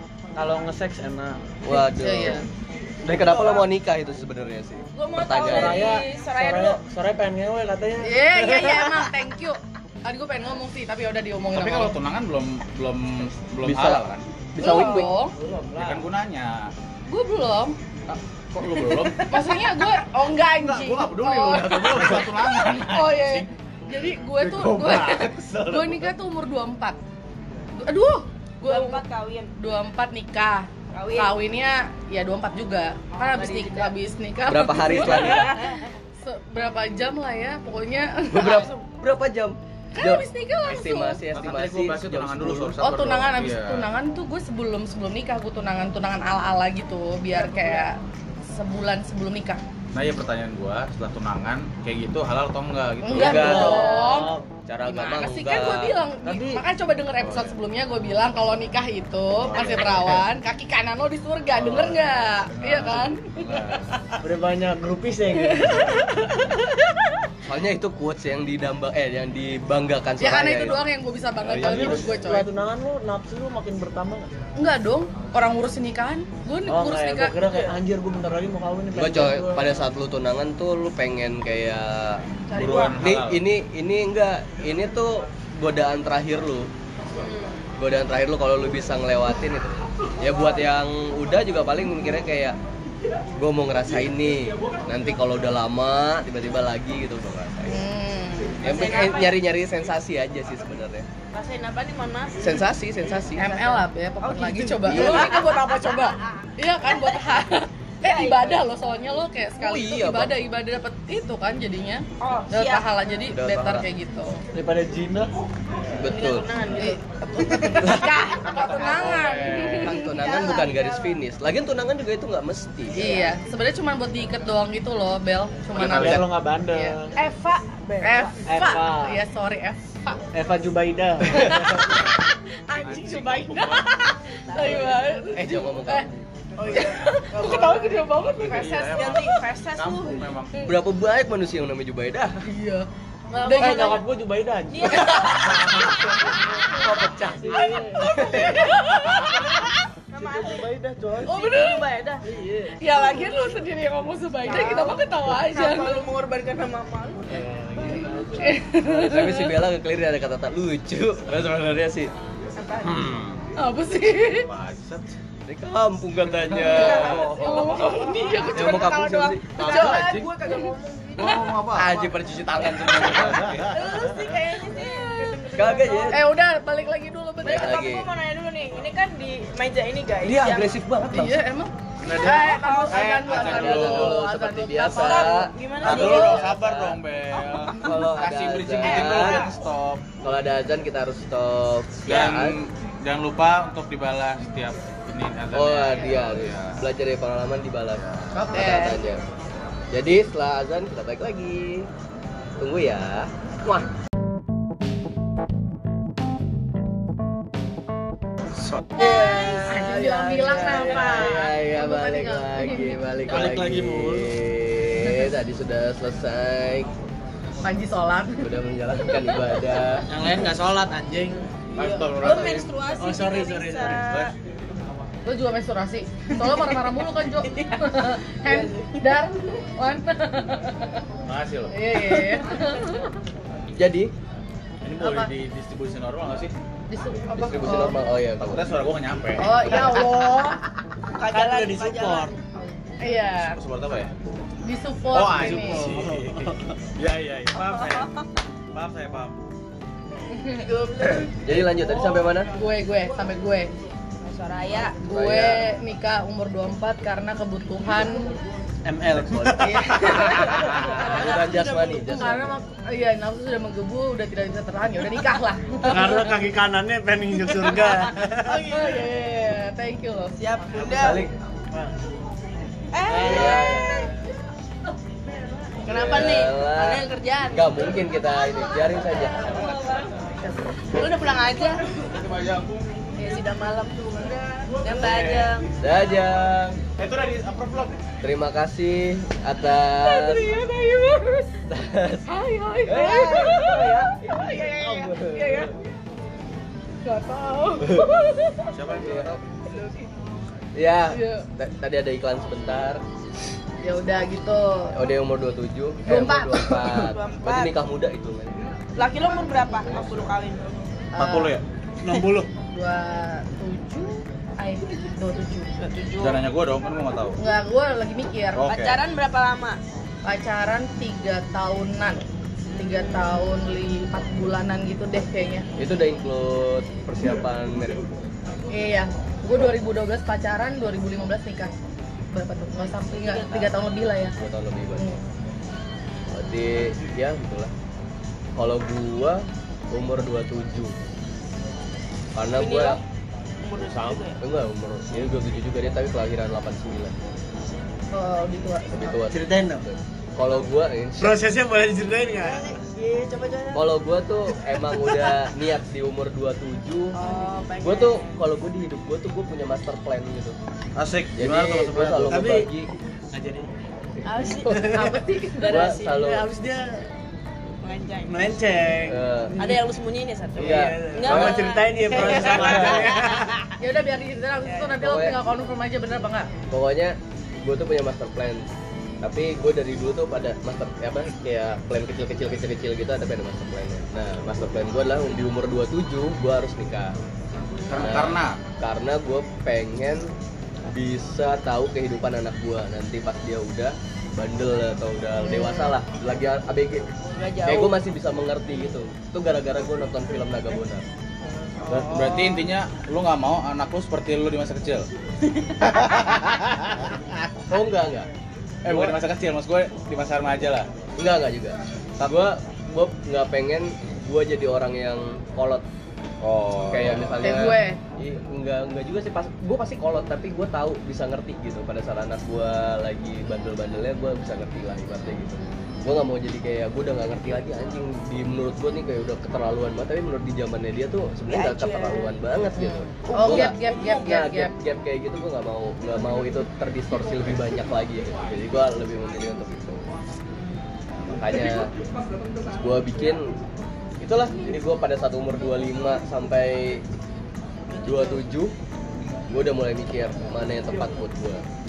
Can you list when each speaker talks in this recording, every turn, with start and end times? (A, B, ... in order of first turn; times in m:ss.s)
0:00.4-0:01.4 A
0:01.6-0:02.4 B
0:01.7-0:02.4 C
0:03.0-0:06.0 B
0:03.3-0:03.6 A
0:05.0-0:06.8 D
0:05.4-0:09.1 A
0:08.0-0:12.0 C
0:11.5-0:14.2 E
0:13.6-0:14.0 B
0:14.6-0:15.1 B
0:14.6-0:15.3 C
0:14.6-0:15.1 D
0:15.4-0:16.1 A
0:15.7-0:16.7 E
0:17.1-0:17.8 C
0:18.1-0:19.3 E
0:18.8-0:19.9 D
0:19.3-0:27.0 C
0:20.6-0:23.5 E
0:24.4-0:26.1 E
0:27.8-0:29.0 C
0:28.6-0:29.5 D
0:29.6-0:35.6 C
0:30.9-0:31.4 D
0:33.3-0:33.9 D
0:34.5-0:35.5 B
0:34.8-0:35.9 D
0:36.2-0:38.7 C
0:38.3-0:42.8 B
0:40.0-0:41.2 C
0:41.3-0:43.9 E
0:42.8-0:49.6 C
0:49.9-0:53.7 E
0:53.0-1:03.7 C
0:53.1-0:54.5 A
0:53.2-0:54.1 B
0:53.6-0:54.2 D
0:54.7-0:56.0 B
0:56.2-0:56.6 A
0:57.2-0:57.5 E
0:59.4-1:00.2 E
1:01.6-1:04.2 E
1:04.2-1:06.2 A
1:05.4-1:06.2 C
1:07.4-1:10.8 B
1:10.2-1:12.5 C
1:11.4-1:12.3 B
1:11.5-1:14.3 A
1:14.6-1:17.7 C
1:16.7-1:19.7 A
1:18.9-1:22.2 B
1:22.5-1:23.0 D
1:22.5-1:23.4 E
1:23.0-1:26.7 B
1:27.2-1:27.5 D
1:27.8-1:32.6 B
1:33.4-1:37.8 B
1:37.7-1:38.6 C
1:38.6-1:41.1 B
1:38.6-1:39.4 D
1:41.3-1:42.5 D
1:42.4-1:43.8 B
1:43.4-1:54.4 C
1:44.2-1:46.3 D
1:44.8-1:45.4 B
1:46.9-1:47.2 D
1:48.0-1:48.6 D
1:49.6-1:50.3 B
1:52.2-1:52.9 D
1:53.3-1:53.8 B
1:54.5-1:55.3 A
1:56.0-1:56.5 B
1:56.0-1:59.3 D
1:56.8-2:00.1 C
1:57.8-1:58.1 B
1:58.4-1:59.9 E
1:59.8-2:03.1 B
1:59.9-2:01.2 D
2:03.0-2:07.0 C
2:03.0-2:03.3 D
2:05.8-2:06.3 E
2:05.8-2:07.1 A
2:07.2-2:08.4 D
2:08.0-2:10.2 C
2:08.5-2:09.2 A
2:10.3-2:11.8 A
2:11.4-2:11.9 C
2:12.7-2:15.2 D
2:12.7-2:16.1 C
2:12.7-2:13.9 E
2:15.4-2:16.1 B
2:16.6-2:20.3 D
2:16.7-2:19.2 C
2:18.2-2:20.6 E
2:20.6-2:22.3 B
2:22.4-2:24.0 C
2:23.5-2:24.0 D
2:23.6-2:27.9 A
2:24.7-2:26.6 D
2:26.8-2:28.6 B
2:27.5-2:28.6 D
2:27.5-2:29.7 C
2:30.1-2:30.7 D
2:30.1-2:31.3 A
2:31.2-2:32.2 D
2:31.3-2:31.9 C
2:32.2-2:32.7 A
2:32.7-2:36.0 C
2:34.4-2:37.5 D
2:37.2-2:38.6 A
2:38.4-2:39.5 C
2:38.8-2:42.1 B
2:42.6-2:43.0 D
2:42.8-2:43.4 E
2:43.6-2:44.5 C
2:44.4-2:45.1 E
2:45.5-2:47.9 B
2:46.6-2:47.6 E
2:46.6-2:50.7 C
2:47.4-2:48.6 D
2:48.5-2:49.5 B
2:49.6-2:50.3 E
2:49.6-2:50.6 D
2:50.5-2:51.3 A
2:51.2-2:52.1 E
2:51.7-2:53.7 B
2:53.1-2:53.8 E
2:53.7-2:56.1 D
2:54.8-2:55.4 C
2:55.2-2:56.1 A
2:55.5-2:56.2 B
2:56.1-2:57.9 C
2:57.4-3:00.7 D
2:57.5-2:58.1 B
3:00.2-3:01.4 B
3:01.1-3:06.5 C
3:02.0-3:04.2 E
3:02.1-3:03.5 D
3:03.4-3:07.0 B
3:04.9-3:06.6 D
3:05.8-3:10.0 E
3:07.8-3:09.5 B
3:08.8-3:09.5 D
3:10.2-3:12.6 B
3:12.1-3:16.8 E
3:15.5-3:19.2 B
3:18.0-3:18.3 E
3:18.3-3:19.0 C
3:18.5-3:19.0 D
3:19.9-3:21.9 B
3:22.6-3:23.9 B
3:29.0-3:33.0 C
3:29.0-3:31.5 D
3:30.9-3:36.9 B
3:33.3-3:34.3 A
3:37.6-3:38.5 C
3:38.4-3:40.1 B
3:40.1-3:41.5 A
3:41.7-3:42.7 E
3:41.8-3:44.3 D
3:42.2-3:44.1 A
3:45.3-3:50.9 C
3:46.4-3:46.8 D
3:47.4-3:49.2 D
3:51.3-3:51.7 E
3:51.7-3:53.0 C
3:53.8-3:54.1 B
3:54.8-3:56.5 E
3:55.0-3:55.3 C
3:56.9-3:58.0 C
3:57.3-3:57.8 E
3:57.3-3:58.7 B
3:58.4-3:59.7 E
3:59.4-4:00.6 C
3:59.7-4:00.0 D
4:01.1-4:02.3 A
4:01.2-4:02.4 D
4:03.0-4:03.6 C
4:03.4-4:04.1 E
4:04.6-4:05.9 C
4:05.1-4:08.1 E
4:05.3-4:06.6 A
4:08.7-4:09.4 E
4:10.3-4:10.7 C
4:10.6-4:11.3 D
4:11.4-4:12.5 B
4:12.6-4:13.7 C
4:14.2-4:15.0 D
4:15.0-4:18.3 C
4:15.1-4:15.7 B
4:19.1-4:19.5 E
4:19.4-4:19.9 A
4:19.6-4:21.0 C
4:21.0-4:21.9 D
4:21.0-4:22.6 B
4:21.3-4:22.1 A
4:22.1-4:26.4 C
4:25.9-4:28.9 A
4:28.4-4:30.3 C
4:30.4-4:31.2 D
4:30.8-4:31.3 B
4:32.9-4:34.2 D
4:33.1-4:34.1 A
4:33.2-4:34.1 B
4:35.8-4:37.9 D
4:35.9-4:39.4 B
4:39.4-4:40.0 D
4:40.9-4:42.0 D
4:42.0-4:42.9 E
4:43.2-4:45.7 D
4:45.0-4:45.5 E
4:45.8-4:46.8 B
4:47.0-4:48.0 E
4:48.2-4:50.5 B
4:50.0-4:51.5 D
4:51.7-4:52.3 B
4:52.3-4:53.9 C
4:52.8-4:55.7 B
4:52.9-4:55.7 D
4:57.0-4:58.7 D
4:57.8-4:58.1 B
4:58.7-4:59.4 E
4:58.9-4:59.4 B
4:59.7-5:00.1 D
5:00.8-5:03.0 B
5:01.1-5:01.5 C
5:03.8-5:04.9 C
5:04.9-5:08.6 B
5:06.1-5:06.8 C
5:06.8-5:07.8 D
5:09.0-5:10.6 D
5:09.8-5:10.3 B
5:11.2-5:11.6 C
5:11.2-5:11.6 E
5:12.0-5:12.5 A
5:12.7-5:15.8 C
5:15.8-5:16.4 D
5:16.2-5:17.4 E
5:17.4-5:18.7 C
5:18.6-5:19.0 E
5:18.7-5:19.8 D
5:20.2-5:22.2 C
5:22.8-5:25.7 C
5:25.8-5:28.1 B
5:28.7-5:31.7 C
5:32.3-5:34.4 C
5:33.3-5:33.7 D
5:34.4-5:35.1 B
5:35.0-5:35.2 C
5:36.3-5:37.7 B
5:38.6-5:41.0 B
5:42.4-5:43.0 B
5:42.6-5:43.0 D
5:43.6-5:44.4 D
5:43.9-5:44.2 A
5:44.4-5:47.1 B
5:48.1-5:49.2 C
5:48.9-5:51.4 B
5:49.3-5:49.9 A
5:51.2-5:52.8 A
5:52.4-5:53.9 D
5:53.7-5:57.2 B
5:57.1-5:58.3 D
5:57.8-6:00.6 B
6:01.0-6:02.6 E
6:01.4-6:02.7 B
6:01.4-6:02.7 A
6:03.3-6:03.7 A
6:04.2-6:05.0 D
6:04.6-6:05.2 A
6:04.8-6:05.7 C
6:05.6-6:06.4 D
6:05.6-6:06.5 B
6:06.1-6:07.1 A
6:07.8-6:08.6 D
6:08.3-6:09.8 A
6:09.0-6:09.6 B
6:09.6-6:13.5 D
6:10.5-6:13.5 A
6:10.6-6:11.7 B
6:12.6-6:12.9 B
6:13.8-6:16.5 C
6:14.7-6:14.9 D
6:15.0-6:15.4 B
6:16.7-6:18.7 B
6:19.2-6:27.2 B
6:27.9-6:28.6 E
6:27.9-6:30.3 B
6:30.8-6:37.1 B
6:35.5-6:35.9 C
6:37.3-6:38.0 D
6:37.6-6:41.0 B
6:41.9-6:45.1 E
6:45.8-6:47.1 E
6:47.7-6:48.3 B
6:48.8-6:50.9 E
6:48.9-6:49.2 B
6:51.2-6:55.8 B
6:56.4-6:57.3 E
6:56.9-7:20.1 B
6:57.4-6:58.0 C
7:11.5-7:12.3 D
7:12.8-7:14.7 C
7:13.3-7:14.0 D
7:21.4-7:21.9 B
7:22.7-7:23.6 B
7:24.2-7:27.0 B
7:27.9-7:28.4 D
7:28.0-7:28.7 B
7:29.5-7:31.6 B